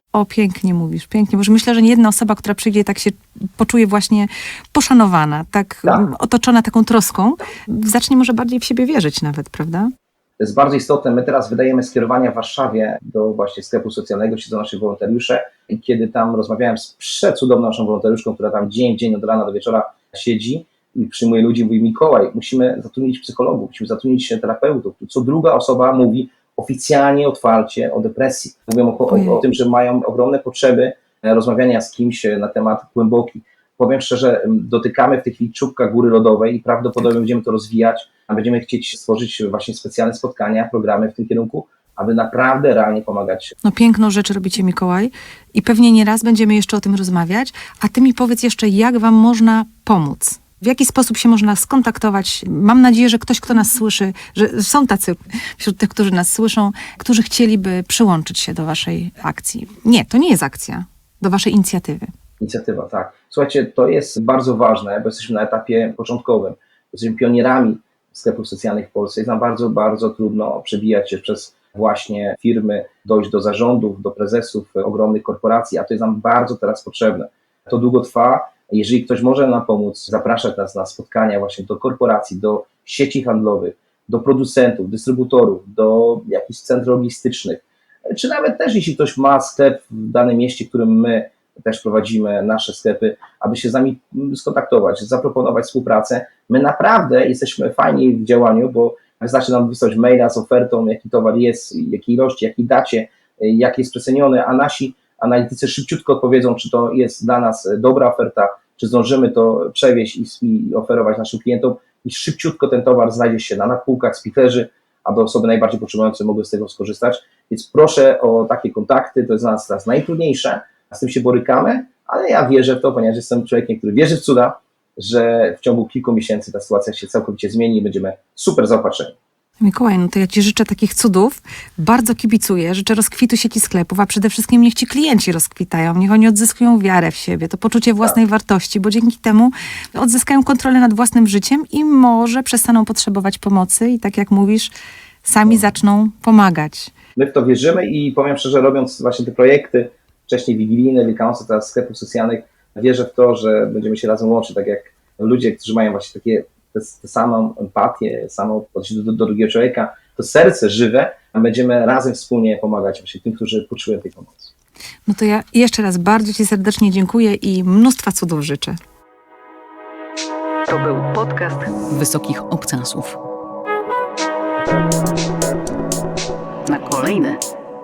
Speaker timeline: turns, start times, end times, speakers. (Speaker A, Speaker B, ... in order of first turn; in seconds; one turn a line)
Speaker A: 0.1-9.9
Speaker B: 10.4-43.5
Speaker A: 29.1-29.4
Speaker A: 43.6-62.1
Speaker B: 62.4-129.1
Speaker A: 129.6-144.7
Speaker A: 145.2-146.9
Speaker B: 147.2-164.5
Speaker A: 165.1-168.8
Speaker C: 170.7-173.2
Speaker C: 176.7-177.4